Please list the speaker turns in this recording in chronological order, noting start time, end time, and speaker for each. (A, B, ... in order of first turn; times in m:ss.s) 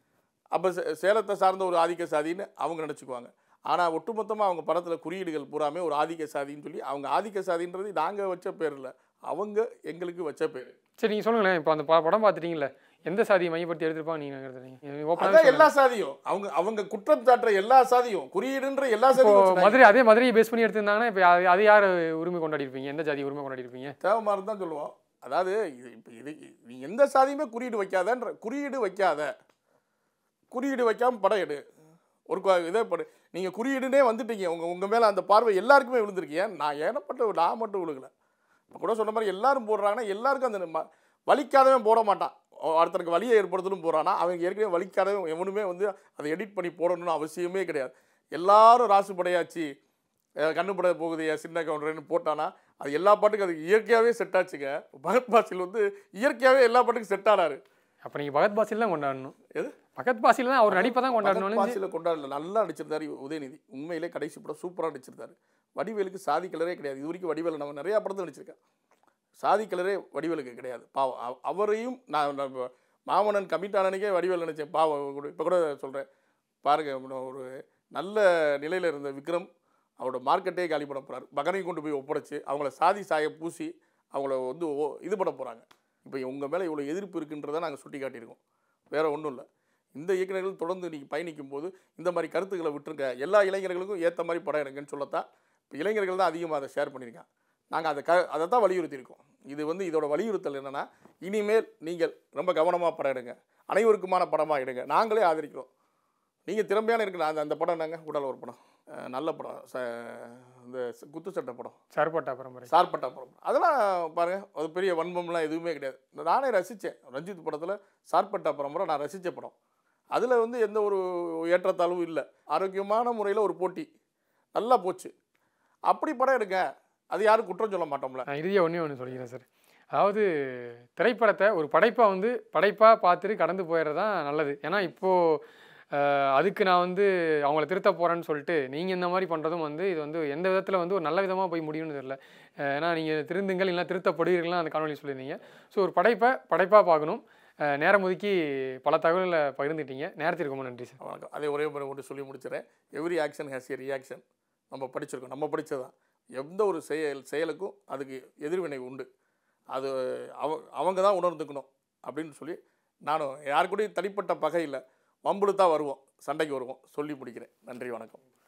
0:00.5-0:10.7 A
0:11.0-0:15.7 B
0:15.2-0:19.9 A
0:19.1-0:23.9 B
0:24.0-0:29.3 A
0:30.5-0:31.6 A
0:32.3-0:38.1 A
0:38.7-0:49.7 A
0:50.4-0:57.6 A
0:58.0-0:59.3 B
1:00.0-1:01.8 B
1:00.7-1:08.6 A
1:09.4-1:16.0 A
1:16.6-1:19.5 A
1:20.0-1:28.4 A
1:28.9-1:45.7 A
1:46.5-1:51.8 A
1:51.9-1:52.7 B
1:52.7-1:59.5 A
2:00.1-2:03.9 A
2:04.5-2:05.1 A
2:05.9-2:08.2 A
2:08.3-2:15.4 B
2:15.9-2:31.0 B
2:31.0-2:39.1 A
2:39.7-2:48.2 A